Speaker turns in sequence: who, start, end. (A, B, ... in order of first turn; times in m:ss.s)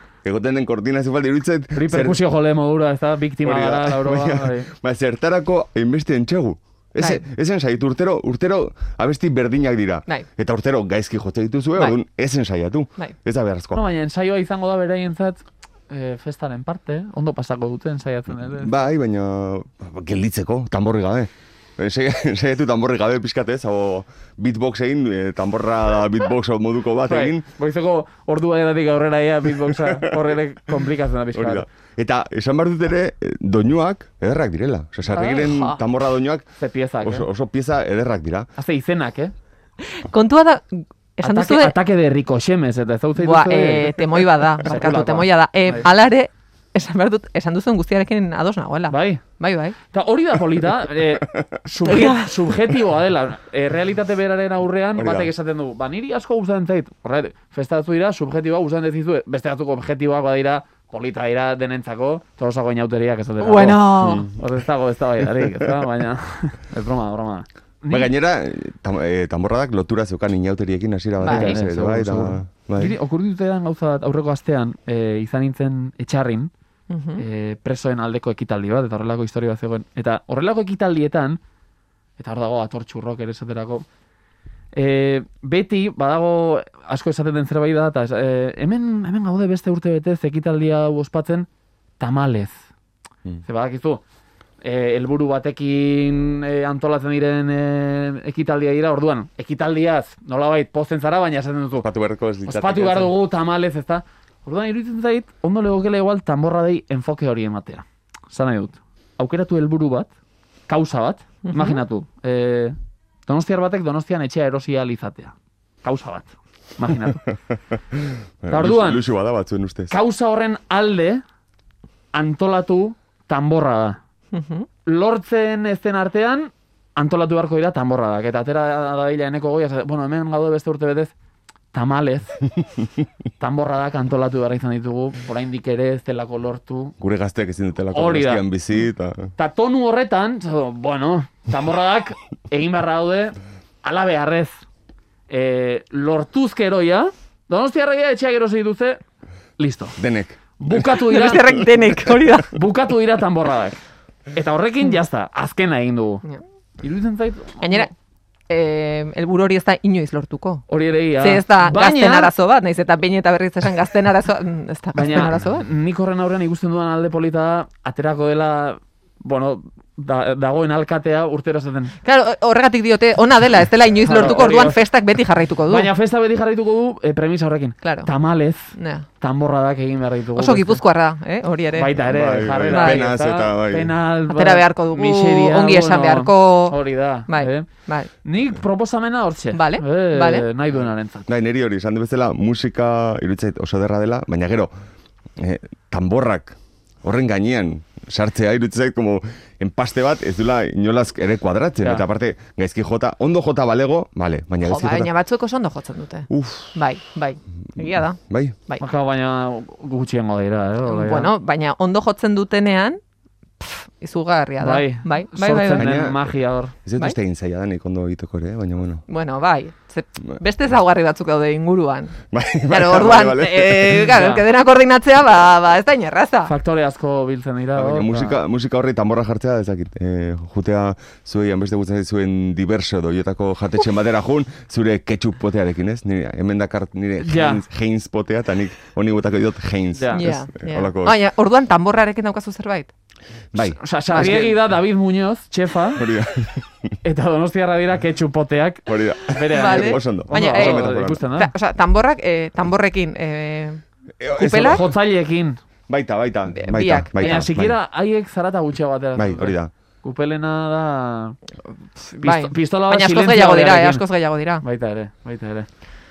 0:00.2-0:02.2 A
0:01.7-0:04.7 B
0:03.4-0:13.8 A
0:07.0-0:07.2 C
0:13.7-0:18.7 B
0:18.3-0:27.4 A
0:27.0-0:31.6 B
0:29.8-0:30.2 A
0:31.3-0:36.5 A
0:35.1-0:35.8 B
0:36.6-0:37.3 B
0:37.0-0:38.5 A
0:38.6-0:39.3 B
0:39.8-0:41.7 C
0:41.2-0:45.9 B
0:43.2-0:49.8 C
0:48.9-0:49.2 B
0:49.9-1:08.1 B
0:51.3-0:51.6 A
0:51.8-0:52.3 C
0:55.0-0:55.3 A
1:03.4-1:04.3 C
1:03.9-1:04.4 A
1:07.9-1:13.0 A
1:11.2-1:11.7 C
1:11.3-1:16.5 B
1:16.9-1:17.2 C
1:17.2-1:21.4 B
1:22.2-1:23.8 B
1:24.7-1:31.5 B
1:32.0-1:32.6 B
1:33.4-1:34.0 B
1:34.6-1:41.9 B
1:41.8-1:43.1 A
1:42.5-1:50.1 B
1:50.7-1:52.8 B
1:51.4-1:51.8 C
1:53.3-1:57.2 B
1:57.3-1:59.9 A
1:58.5-1:59.0 B
1:59.9-2:01.2 B
2:02.1-2:04.0 B
2:04.3-2:04.7 C
2:04.8-2:11.1 B
2:11.7-2:12.4 B
2:13.4-2:16.9 B
2:17.0-2:19.3 A
2:17.9-2:18.4 B
2:19.4-2:24.6 B
2:25.3-2:29.0 B
2:29.6-2:30.0 B
2:30.0-2:30.8 A
2:30.6-2:31.7 B
2:30.9-2:32.6 C
2:32.5-2:33.8 B
2:34.3-2:36.2 B
2:36.8-2:37.9 B
2:37.6-2:37.9 C
2:38.5-2:40.6 C
2:40.7-2:42.3 B
2:41.2-2:45.6 C
2:44.9-2:51.9 B
2:52.0-2:55.9 C
2:54.0-2:54.8 B
2:55.7-3:00.8 B
2:57.8-2:58.1 C
2:58.7-2:59.0 C
3:00.3-3:02.0 C
3:01.7-3:07.7 B
3:02.0-3:03.9 A
3:02.7-3:03.0 C
3:04.3-3:08.1 C
3:08.2-3:11.3 B
3:09.5-3:10.5 C
3:11.3-3:14.7 A
3:15.4-3:25.1 A
3:24.6-3:28.8 C
3:26.3-3:26.8 A
3:27.8-3:28.6 A
3:28.8-3:31.3 B
3:30.8-3:33.0 C
3:33.6-3:35.9 C
3:34.6-3:36.7 B
3:35.5-3:36.2 A
3:36.8-3:39.0 A
3:39.1-3:46.5 C
3:42.3-3:44.1 A
3:44.0-3:44.4 B
3:46.4-3:48.4 B
3:47.8-4:01.2 A
3:57.2-3:57.6 B
3:59.9-4:00.3 B
4:00.1-4:02.9 C
4:03.5-4:04.4 A
4:03.6-4:06.0 B
4:04.1-4:04.6 C
4:06.0-4:06.9 A
4:07.0-4:11.5 B
4:08.9-4:11.2 A
4:09.5-4:13.8 C
4:14.2-4:14.9 A
4:14.3-4:14.9 C
4:14.6-4:15.6 B
4:15.9-4:17.8 A
4:16.5-4:17.5 C
4:17.2-4:21.4 B
4:19.2-4:19.7 A
4:22.1-4:24.6 C
4:22.2-4:24.0 B
4:24.6-4:25.7 B